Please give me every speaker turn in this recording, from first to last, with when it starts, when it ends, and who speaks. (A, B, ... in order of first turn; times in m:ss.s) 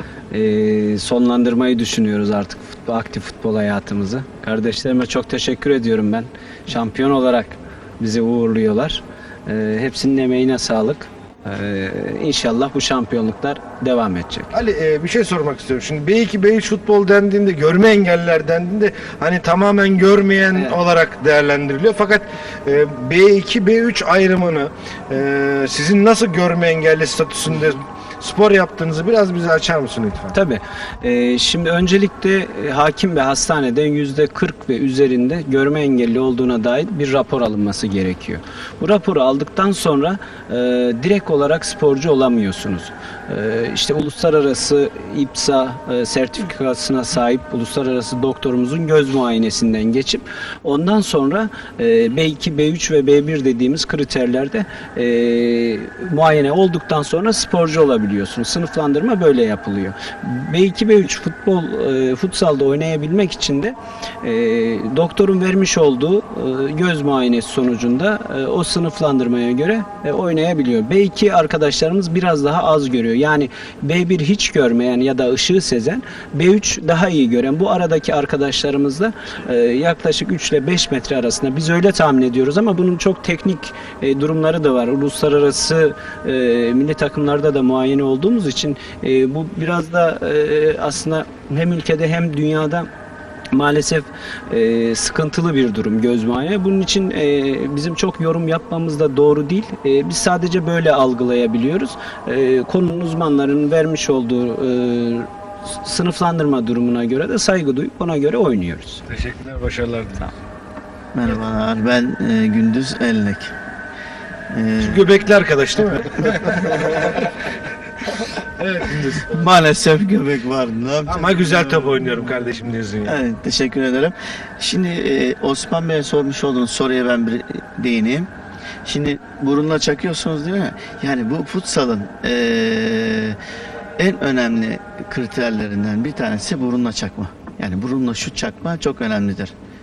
0:00.3-0:14.5 A
0:14.5-0:30.4 B
0:30.3-1:32.9 A
1:33.5-1:49.0 A
1:49.1-1:50.3 B
1:51.1-1:53.5 C
1:54.5-1:55.0 C
1:54.8-1:57.0 B
1:58.6-1:59.3 B
1:59.3-2:02.2 C
2:01.1-2:03.2 B
2:03.0-2:08.3 C
2:08.8-2:13.4 C
2:14.0-2:19.5 C